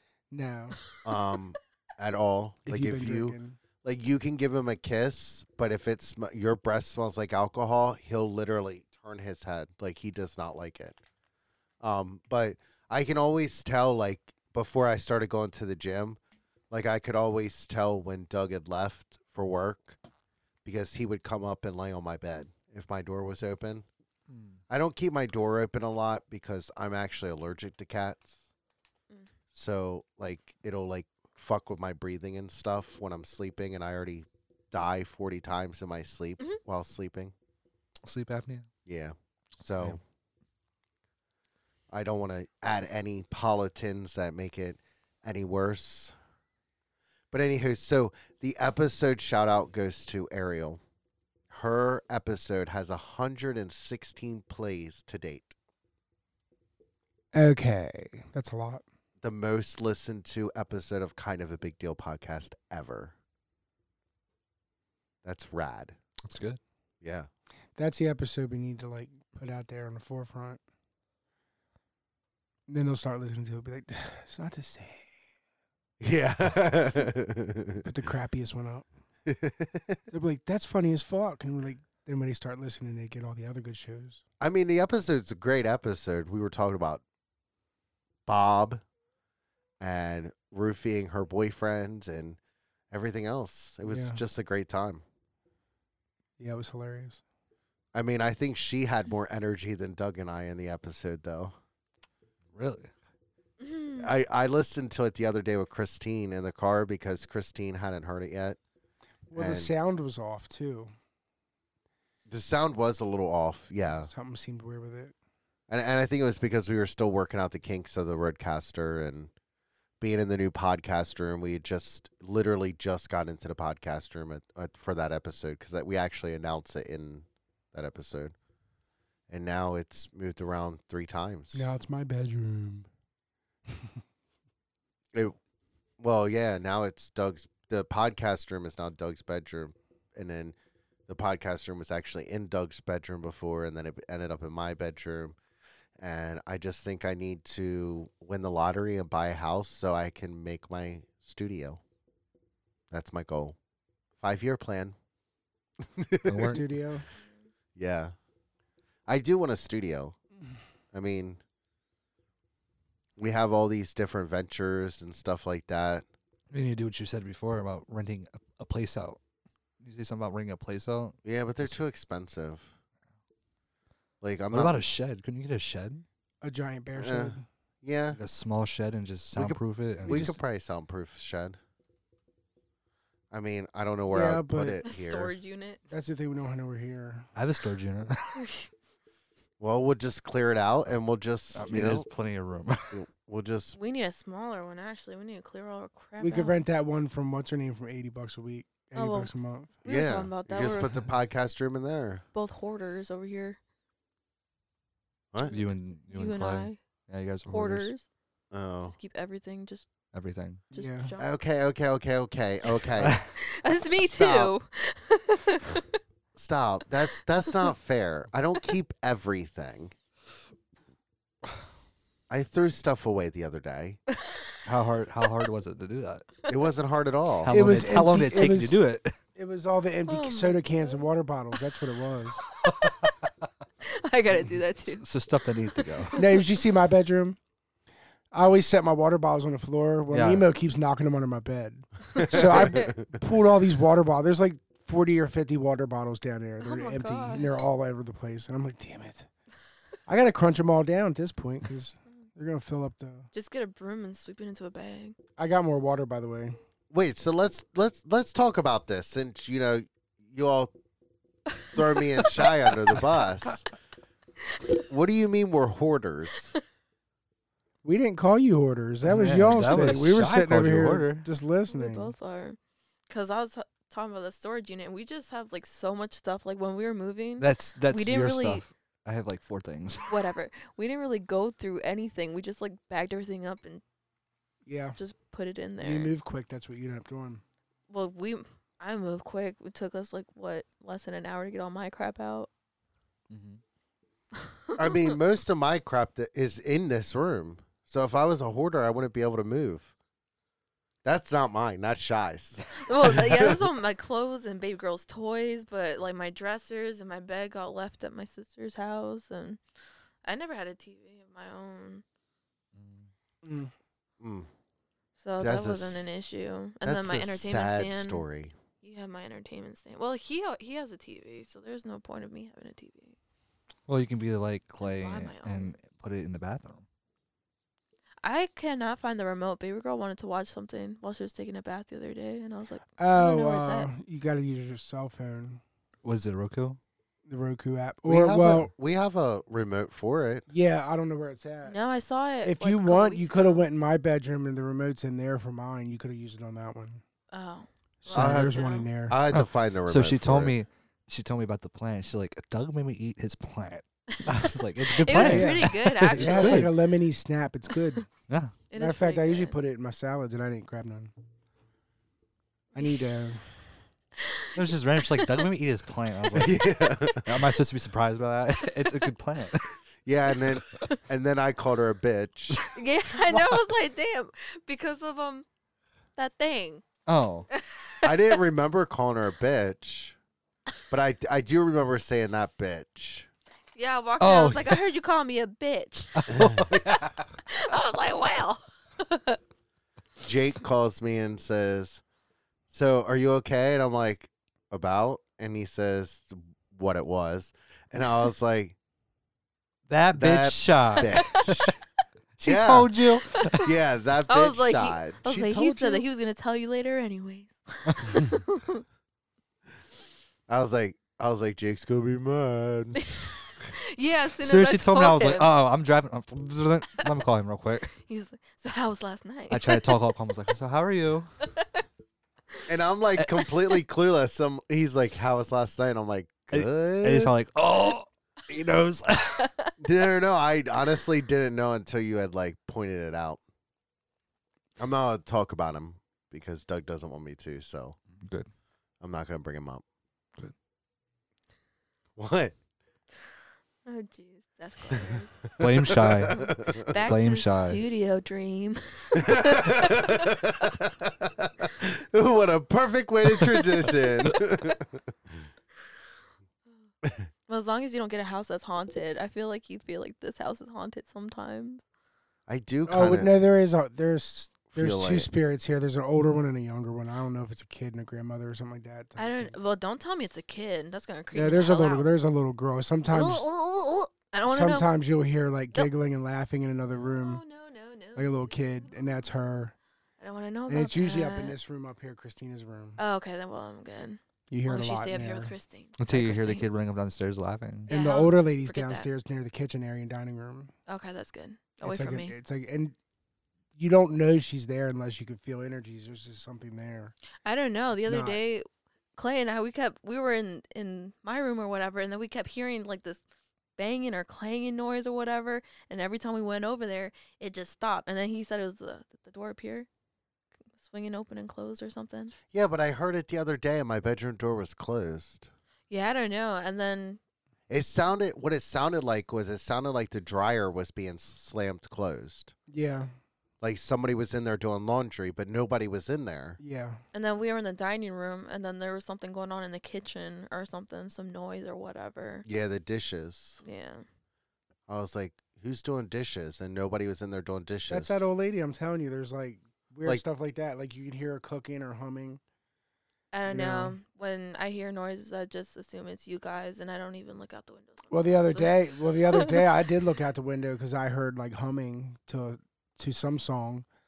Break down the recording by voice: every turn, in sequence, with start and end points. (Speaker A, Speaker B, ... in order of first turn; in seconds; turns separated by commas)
Speaker A: 0.3-0.8, Speaker B: 1.1-11.0, Speaker A: 2.7-3.6, Speaker B: 11.8-16.2, Speaker B: 16.7-20.0, Speaker B: 20.6-23.9, Speaker C: 24.3-24.6, Speaker B: 24.7-28.4, Speaker B: 29.5-37.3, Speaker C: 38.0-38.7, Speaker B: 38.9-40.0, Speaker C: 39.7-40.0, Speaker B: 41.9-46.1, Speaker B: 47.3-50.8, Speaker B: 51.5-55.5, Speaker A: 57.3-58.8, Speaker B: 59.2-63.1, Speaker B: 65.2-66.0, Speaker C: 66.2-66.6, Speaker B: 67.0-67.3, Speaker A: 67.8-70.6, Speaker A: 72.7-75.1, Speaker B: 76.0-77.9, Speaker A: 77.8-78.9, Speaker B: 79.3-80.0, Speaker A: 80.1-84.2, Speaker B: 84.4-87.0, Speaker B: 88.3-88.8, Speaker B: 89.8-92.4, Speaker B: 92.9-95.0, Speaker A: 93.9-94.2, Speaker A: 96.4-97.2, Speaker B: 97.9-101.5, Speaker C: 102.5-102.9, Speaker D: 103.6-104.1, Speaker B: 104.0-108.6, Speaker A: 109.3-110.9, Speaker B: 109.3-109.7, Speaker B: 112.3-114.1, Speaker A: 114.0-115.1, Speaker B: 115.7-119.3, Speaker B: 120.0-128.3, Speaker B: 129.3-131.7, Speaker A: 131.5-132.9, Speaker A: 133.7-134.0, Speaker B: 136.0-140.6, Speaker B: 141.1-145.4, Speaker B: 146.0-151.8, Speaker B: 152.9-153.6, Speaker B: 154.2-154.9, Speaker B: 155.8-156.6, Speaker C: 156.2-156.7, Speaker A: 156.5-157.1, Speaker B: 157.8-158.1, Speaker B: 159.1-160.2, Speaker B: 160.9-161.4, Speaker B: 163.2-166.1, Speaker C: 166.5-169.2, Speaker C: 169.8-171.8, Speaker B: 171.2-172.7, Speaker B: 174.2-174.8, Speaker C: 174.5-176.1, Speaker A: 176.4-177.5, Speaker B: 177.0-178.2, Speaker C: 178.1-180.3, Speaker B: 179.3-181.6, Speaker A: 180.1-180.4, Speaker B: 183.3-185.3, Speaker A: 184.1-184.8, Speaker D: 184.8-185.8, Speaker A: 185.9-187.3, Speaker C: 187.3-188.4, Speaker D: 188.4-188.7, Speaker B: 189.6-192.1, Speaker C: 191.5-193.0, Speaker B: 192.9-193.8, Speaker D: 193.8-196.6, Speaker A: 196.2-199.7, Speaker D: 198.9-199.3, Speaker D: 199.8-201.0, Speaker B: 199.9-202.2, Speaker D: 202.3-203.6, Speaker D: 205.4-206.8, Speaker C: 205.5-207.9, Speaker D: 207.5-208.1, Speaker B: 208.5-209.0, Speaker D: 208.9-209.9, Speaker C: 210.1-210.6, Speaker D: 210.7-211.3, Speaker A: 210.7-211.1, Speaker B: 211.2-213.2, Speaker C: 213.0-213.3, Speaker D: 213.4-216.0, Speaker C: 213.9-214.4, Speaker B: 216.3-219.9, Speaker B: 222.3-224.0, Speaker D: 224.1-224.6, Speaker C: 224.7-226.3, Speaker B: 226.5-227.5, Speaker C: 227.4-229.2, Speaker A: 227.5-228.8, Speaker A: 229.3-232.4, Speaker D: 230.1-231.0, Speaker D: 232.4-232.9, Speaker C: 232.6-233.1, Speaker D: 233.8-235.1, Speaker C: 234.9-236.1, Speaker D: 235.7-236.5, Speaker A: 236.2-237.4, Speaker A: 238.3-249.3, Speaker C: 240.1-240.5, Speaker B: 242.2-243.1, Speaker D: 246.6-247.5, Speaker A: 250.1-253.3, Speaker D: 253.3-255.2, Speaker A: 255.4-256.6, Speaker B: 256.9-260.7, Speaker B: 261.7-263.7, Speaker D: 262.2-262.5, Speaker B: 264.9-266.5, Speaker A: 267.8-272.1, Speaker C: 269.0-271.3, Speaker D: 271.7-272.6, Speaker D: 273.1-278.6, Speaker C: 277.4-280.1, Speaker D: 280.1-283.8, Speaker A: 284.7-285.0, Speaker D: 285.0-286.1, Speaker A: 285.8-287.4, Speaker D: 287.9-292.5, Speaker C: 293.3-293.6, Speaker D: 294.7-295.2, Speaker B: 294.8-299.9, Speaker B: 301.0-303.6, Speaker D: 302.7-309.6, Speaker D: 310.2-312.0, Speaker C: 312.8-313.1, Speaker A: 313.4-313.7, Speaker B: 314.2-314.5, Speaker D: 315.2-318.2, Speaker B: 315.4-316.1, Speaker B: 316.8-318.6, Speaker D: 318.8-323.2, Speaker C: 323.9-326.9, Speaker D: 324.8-325.7, Speaker D: 328.2-333.9, Speaker A: 333.0-335.6, Speaker C: 336.0-336.8, Speaker A: 337.3-338.7, Speaker B: 338.1-340.5, Speaker A: 340.5-341.8, Speaker D: 341.6-343.7, Speaker A: 342.4-347.0, Speaker D: 347.3-348.9, Speaker A: 348.0-349.2, Speaker B: 348.1-350.6, Speaker C: 349.3-356.7, Speaker D: 354.1-356.7, Speaker A: 355.1-358.1, Speaker C: 358.3-358.6, Speaker D: 358.7-359.6, Speaker A: 358.7-361.1, Speaker A: 362.8-363.5, Speaker D: 362.8-363.1, Speaker D: 364.2-365.5, Speaker C: 364.6-369.8, Speaker B: 366.4-367.4, Speaker D: 368.8-369.1, Speaker B: 370.1-372.7, Speaker D: 372.7-375.5, Speaker C: 373.3-373.6, Speaker D: 376.2-376.9, Speaker C: 377.1-377.5, Speaker D: 377.5-378.4, Speaker B: 378.0-380.2, Speaker B: 380.9-383.3, Speaker D: 383.8-386.3, Speaker C: 384.2-384.8, Speaker C: 386.2-387.3, Speaker B: 386.3-386.8, Speaker D: 387.5-389.4, Speaker B: 390.2-392.0, Speaker B: 392.7-398.8, Speaker C: 399.9-401.7, Speaker B: 400.2-401.8, Speaker D: 401.0-401.3, Speaker C: 402.4-403.6, Speaker B: 402.4-402.9, Speaker D: 403.4-403.7, Speaker B: 403.5-405.4, Speaker D: 404.3-408.8, Speaker C: 405.3-406.0, Speaker C: 407.9-408.3, Speaker B: 410.5-413.1, Speaker D: 413.0-415.5, Speaker C: 414.4-417.9, Speaker D: 417.9-420.0, Speaker C: 419.5-421.3, Speaker B: 422.7-427.3, Speaker C: 426.5-429.5, Speaker D: 429.4-429.7, Speaker B: 429.8-433.4, Speaker B: 434.8-438.0, Speaker C: 438.2-438.5, Speaker B: 439.0-439.8, Speaker B: 442.2-442.6, Speaker D: 443.9-450.4, Speaker B: 444.9-447.0, Speaker C: 445.6-447.8, Speaker B: 449.1-455.3, Speaker D: 454.2-454.8, Speaker D: 457.5-461.8, Speaker B: 462.5-463.3, Speaker A: 462.9-469.5, Speaker B: 464.7-465.3, Speaker D: 469.2-472.1, Speaker A: 471.3-473.5, Speaker D: 473.1-474.9, Speaker A: 474.5-477.4, Speaker D: 477.0-479.2, Speaker A: 478.1-479.8, Speaker D: 480.2-481.6, Speaker A: 480.7-483.0, Speaker D: 483.0-486.7, Speaker A: 484.5-485.5, Speaker C: 486.0-487.9, Speaker D: 487.9-489.1, Speaker A: 487.9-490.7, Speaker D: 490.9-492.3, Speaker A: 491.8-492.9, Speaker A: 493.8-497.1, Speaker D: 497.4-503.2, Speaker A: 497.9-498.4, Speaker D: 503.8-509.9, Speaker D: 510.8-512.4, Speaker B: 512.5-515.5, Speaker D: 515.9-517.2, Speaker B: 517.7-522.5, Speaker A: 522.7-523.1, Speaker B: 523.6-526.6, Speaker A: 526.6-527.0, Speaker D: 527.1-532.5, Speaker B: 532.5-533.6, Speaker D: 533.6-534.0, Speaker B: 534.9-538.3, Speaker A: 537.9-542.4, Speaker D: 543.3-549.7, Speaker A: 543.5-544.0, Speaker A: 548.1-553.9